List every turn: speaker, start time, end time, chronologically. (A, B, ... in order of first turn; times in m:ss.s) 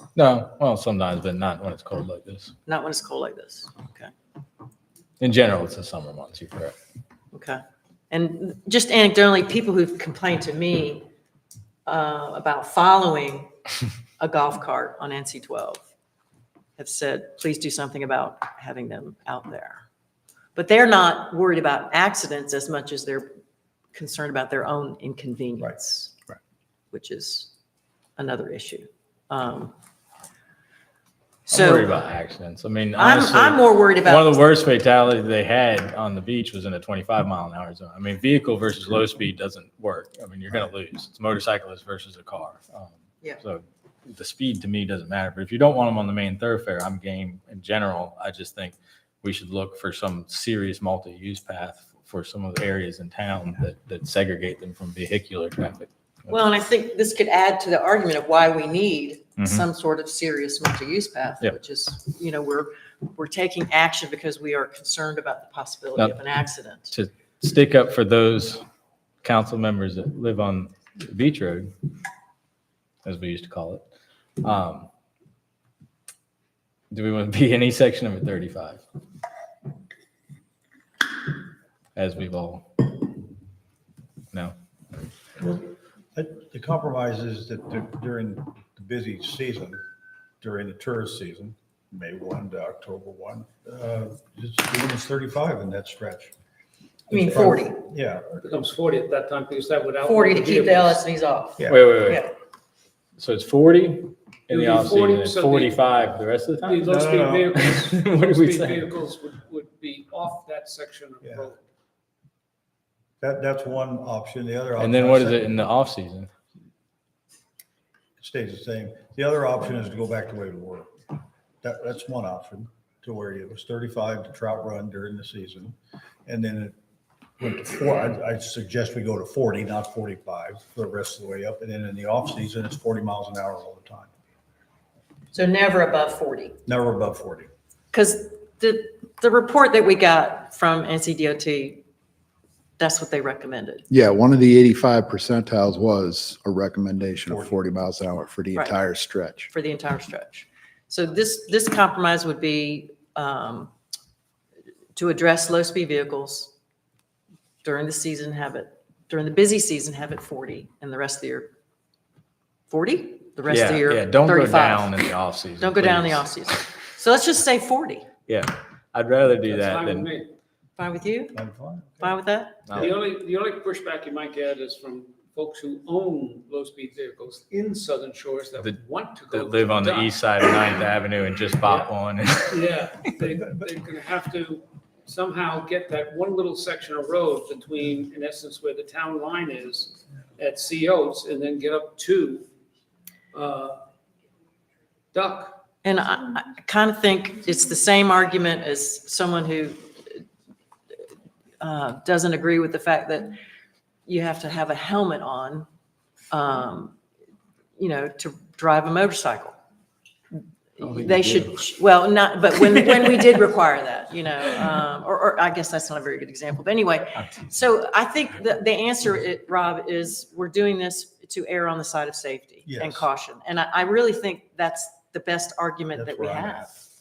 0:00.2-0:02.5 A
0:02.6-0:04.1 B
0:05.2-0:06.7 A
0:07.3-0:11.1 B
0:11.8-0:13.5 B
0:14.2-0:15.8 B
0:16.8-0:19.8 B
0:20.5-0:23.3 B
0:23.9-0:26.1 B
0:26.9-0:27.5 B
0:28.2-0:29.7 B
0:31.5-0:31.9 B
0:31.5-0:55.9 A
0:33.0-0:34.4 B
0:56.3-1:06.9 B
0:59.4-0:59.6 A
1:06.0-1:06.2 A
1:06.9-1:08.6 A
1:09.2-1:11.7 A
1:13.0-1:13.8 A
1:14.4-1:14.9 A
1:16.9-1:18.8 A
1:22.0-1:23.0 A
1:25.4-1:29.8 C
1:30.4-1:36.3 C
1:37.1-1:37.8 B
1:37.1-1:38.4 C
1:38.4-1:41.0 D
1:40.0-1:42.3 B
1:41.7-1:42.2 A
1:43.2-1:46.7 A
1:44.5-1:45.8 D
1:46.6-1:51.6 D
1:46.7-1:47.5 C
1:47.6-1:48.9 A
1:51.2-1:51.5 C
1:53.2-1:55.6 C
1:54.8-1:56.3 A
1:58.2-2:06.7 C
2:07.4-2:14.1 C
2:15.3-2:16.6 B
2:16.7-2:17.5 C
2:17.9-2:21.8 B
2:22.8-2:23.8 B
2:23.9-2:29.5 E
2:29.5-2:33.7 B
2:34.9-2:36.5 B
2:37.6-2:41.5 B
2:42.7-2:45.0 B
2:43.5-2:46.3 A
2:45.6-2:48.1 B
2:48.3-2:50.1 A
2:49.4-2:50.3 D
2:50.8-2:51.4 B
2:51.3-2:52.2 C
2:52.0-2:52.7 B
2:52.7-2:52.9 A
2:52.8-3:00.7 D
2:59.3-3:03.1 A
3:02.5-3:12.4 D
3:03.3-3:03.6 C
3:13.3-3:13.8 D
3:15.1-3:15.6 D
3:15.8-3:20.2 B
3:21.6-3:23.4 B
3:24.0-3:25.7 B
3:26.3-3:27.0 B
3:27.8-3:29.6 B
3:30.8-3:46.8 B
3:30.8-3:31.4 A
3:42.6-3:43.0 C
3:45.9-3:46.7 C